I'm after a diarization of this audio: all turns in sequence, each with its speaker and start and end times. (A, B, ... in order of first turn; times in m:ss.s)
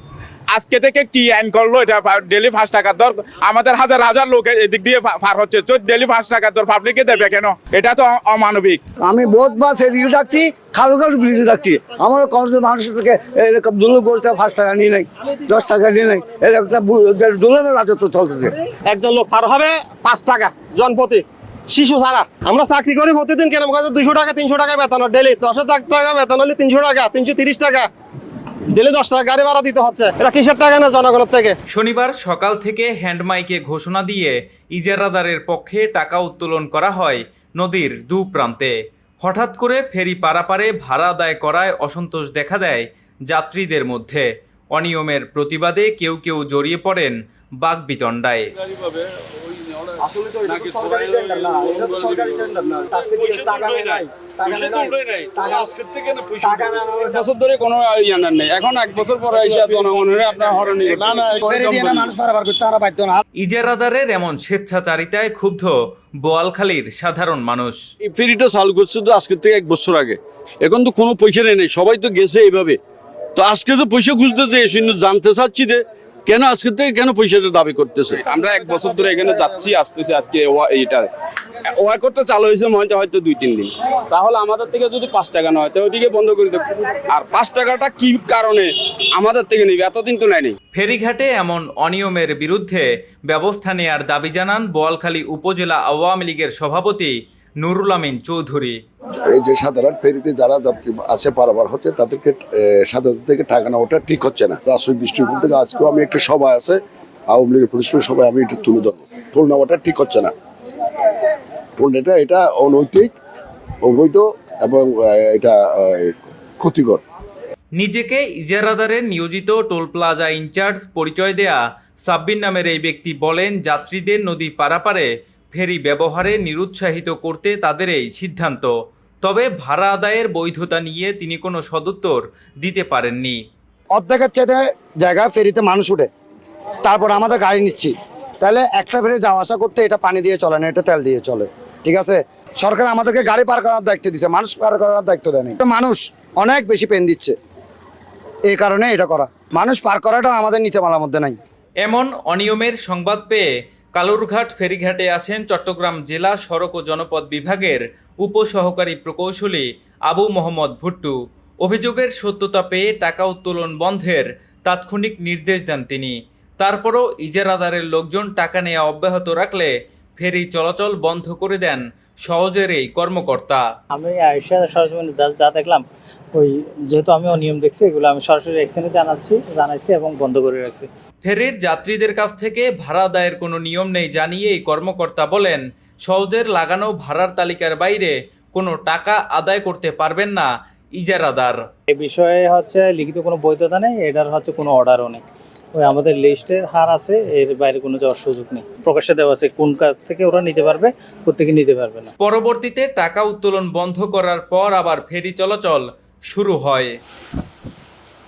0:00.5-0:08.8 A
0:09.0-0:18.5 B
0:18.8-0:27.9 C
0:28.7-0:31.6 C
0:31.7-0:48.5 D
0:48.7-0:56.9 E
0:50.0-0:55.7 B
0:56.4-0:57.2 B
0:57.0-1:01.4 F
0:59.3-0:59.9 E
1:00.9-1:01.9 E
1:01.3-1:03.2 B
1:03.4-1:07.8 D
1:08.0-1:12.8 E
1:13.4-1:18.2 E
1:18.3-1:21.1 F
1:21.7-1:30.6 F
1:30.7-1:38.8 D
1:39.3-1:46.8 G
1:47.3-1:50.3 G
1:51.8-1:53.1 G
1:53.8-1:57.0 G
1:57.8-2:13.4 D
2:13.9-2:16.1 B
2:16.8-2:27.4 B
2:28.5-2:31.4 B
2:31.8-2:53.6 D
2:53.9-2:55.8 H
2:56.4-3:00.9 H
3:01.2-3:11.6 D
3:11.9-3:15.2 H
3:15.8-3:22.1 H
3:22.2-3:27.0 D